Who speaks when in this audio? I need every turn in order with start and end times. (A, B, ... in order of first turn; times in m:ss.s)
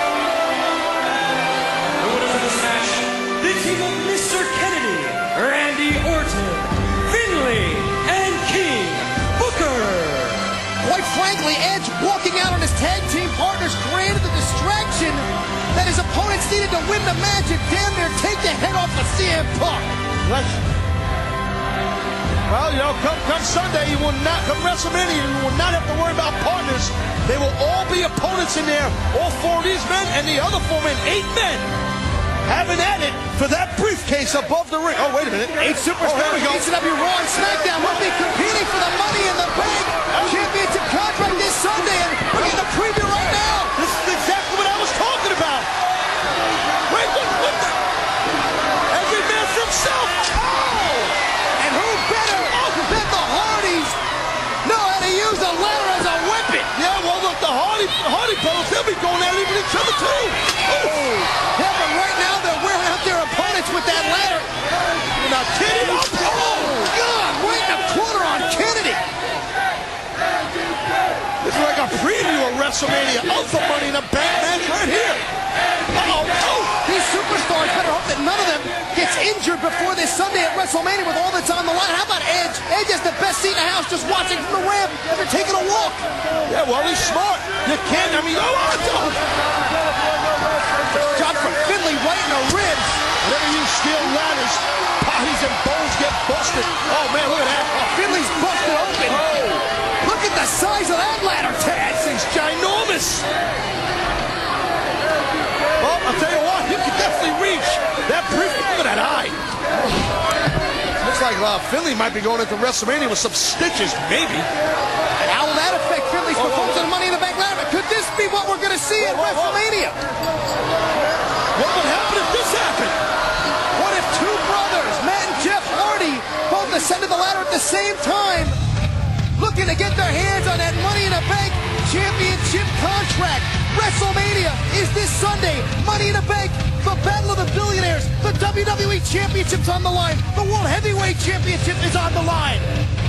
0:02.0-0:10.5 A
0:10.8-0:19.9 B
0:20.2-0:20.6 C
0:22.5-0:31.7 C
0:32.4-0:36.7 C
0:35.6-0:43.7 B
0:40.1-0:40.4 C
0:43.8-0:45.7 C
0:46.9-0:47.8 C
0:48.9-0:50.6 C
0:50.6-0:51.0 B
0:51.6-0:54.0 B
0:54.6-0:56.7 B
0:56.7-1:01.2 C
1:01.2-1:04.5 B
1:05.2-1:06.8 C
1:06.3-1:09.0 B
1:11.4-1:15.2 C
1:15.9-1:16.8 C
1:16.8-1:26.1 B
1:26.5-1:29.2 C
1:30.9-1:33.1 B
1:33.2-1:38.2 C
1:37.9-1:39.3 B
1:39.1-1:39.6 C
1:40.0-1:42.1 B
1:42.0-1:43.3 C
1:45.8-1:49.4 C
1:51.0-1:54.5 C
1:55.2-2:00.0 B
1:56.3-1:56.9 C
1:59.0-1:59.6 C
2:01.6-2:03.0 C
2:03.8-2:08.6 B
2:09.4-2:22.7 B